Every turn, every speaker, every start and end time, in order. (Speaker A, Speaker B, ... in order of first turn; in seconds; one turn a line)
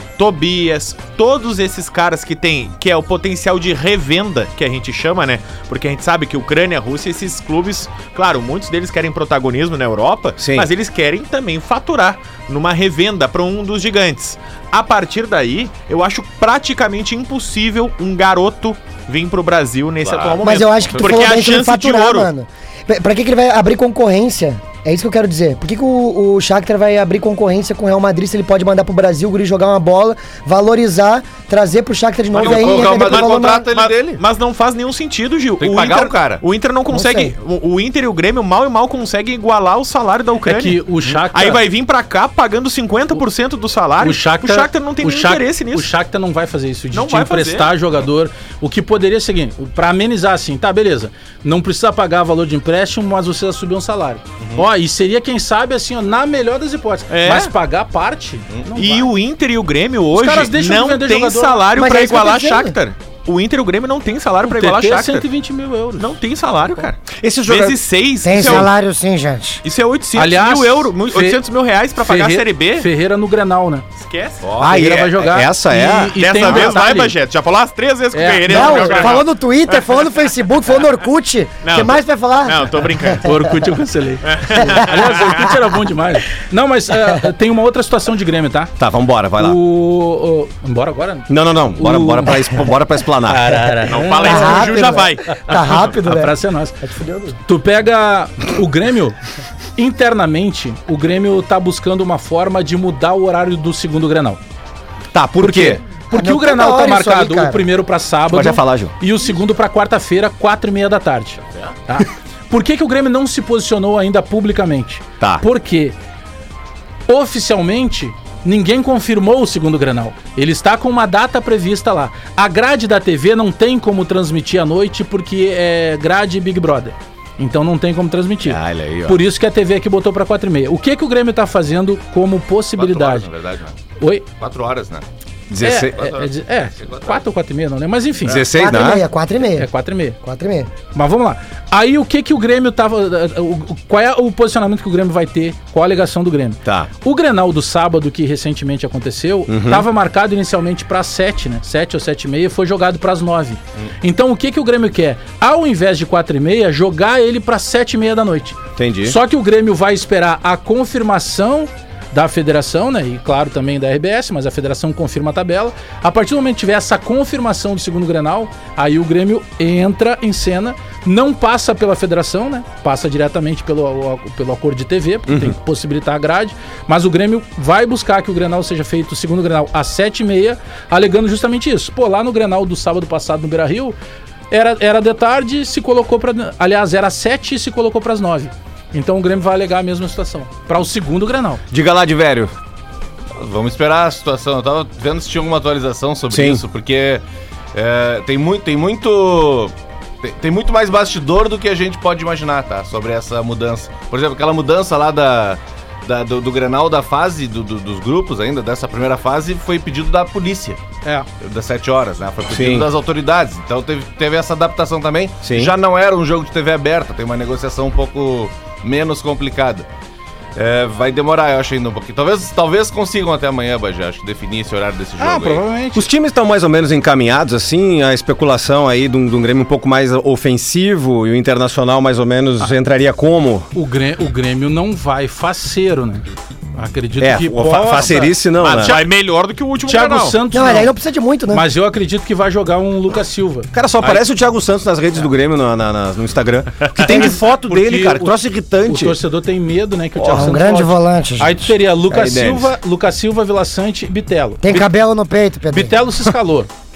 Speaker A: 0.2-22.3
Speaker B: 10.4-10.7
Speaker C: 20.0-21.2
Speaker D: 20.4-33.7
Speaker C: 32.3-34.2
Speaker A: 32.3-45.9
Speaker C: 35.6-36.4
Speaker D: 36.9-37.3
Speaker E: 40.5-41.6
Speaker E: 44.0-59.1
Speaker A: 46.9-47.7
Speaker C: 54.4-54.7
Speaker A: 57.1-57.5
Speaker A: 58.8-65.3
Speaker E: 60.1-61.7
Speaker D: 61.8-62.7
Speaker E: 64.4-66.1
Speaker A: 66.0-68.7
Speaker B: 67.2-67.8
Speaker D: 68.2-69.6
Speaker A: 69.6-72.9
Speaker E: 70.2-71.4
Speaker E: 72.0-73.9
Speaker A: 74.0-74.4
Speaker C: 74.4-74.8
Speaker E: 74.6-77.1
Speaker B: 74.6-76.7
Speaker A: 76.2-80.0
Speaker E: 78.1-79.2
Speaker D: 78.5-83.5
Speaker A: 81.6-83.3
Speaker E: 83.2-88.7
Speaker A: 84.2-85.6
Speaker D: 84.6-85.3
Speaker B: 88.8-89.6
Speaker E: 89.4-92.7
Speaker B: 91.3-93.8
Speaker E: 93.2-94.9
Speaker A: 93.9-96.0
Speaker D: 94.0-97.4
Speaker E: 95.9-96.8
Speaker E: 97.5-99.2
Speaker E: 99.8-104.4
Speaker B: 105.1-105.8
Speaker E: 105.4-116.0
Speaker D: 106.1-107.6
Speaker B: 108.3-108.9
Speaker E: 117.1-133.3
Speaker B: 128.4-129.2
Speaker C: 132.8-133.8
Speaker E: 134.0-134.3
Speaker C: 134.4-135.1
Speaker B: 135.5-136.1
Speaker E: 135.6-138.5
Speaker C: 135.9-137.2
Speaker B: 138.2-139.1
Speaker D: 138.5-139.7
Speaker E: 139.5-140.2
Speaker D: 140.2-140.7
Speaker E: 140.9-184.0
Speaker B: 149.5-149.9
Speaker B: 158.8-159.2
Speaker B: 175.3-175.6
Speaker E: 184.5-191.6
Speaker B: 191.7-192.5
Speaker C: 193.3-197.2
Speaker B: 196.3-196.6
Speaker C: 197.7-210.8
Speaker C: 211.4-219.9
Speaker B: 212.5-212.9
Speaker B: 215.4-215.7
Speaker C: 220.6-225.7
Speaker E: 225.2-226.1
Speaker B: 225.9-233.7
Speaker E: 233.7-236.2
Speaker E: 236.8-239.1
Speaker B: 237.2-239.0
Speaker A: 238.6-240.4
Speaker E: 239.9-240.9
Speaker D: 240.5-241.7
Speaker E: 241.5-244.2
Speaker B: 243.7-249.2
Speaker E: 247.0-254.9
Speaker B: 250.2-250.6
Speaker D: 250.3-251.7
Speaker B: 252.1-252.7
Speaker D: 254.6-255.9
Speaker E: 255.7-256.7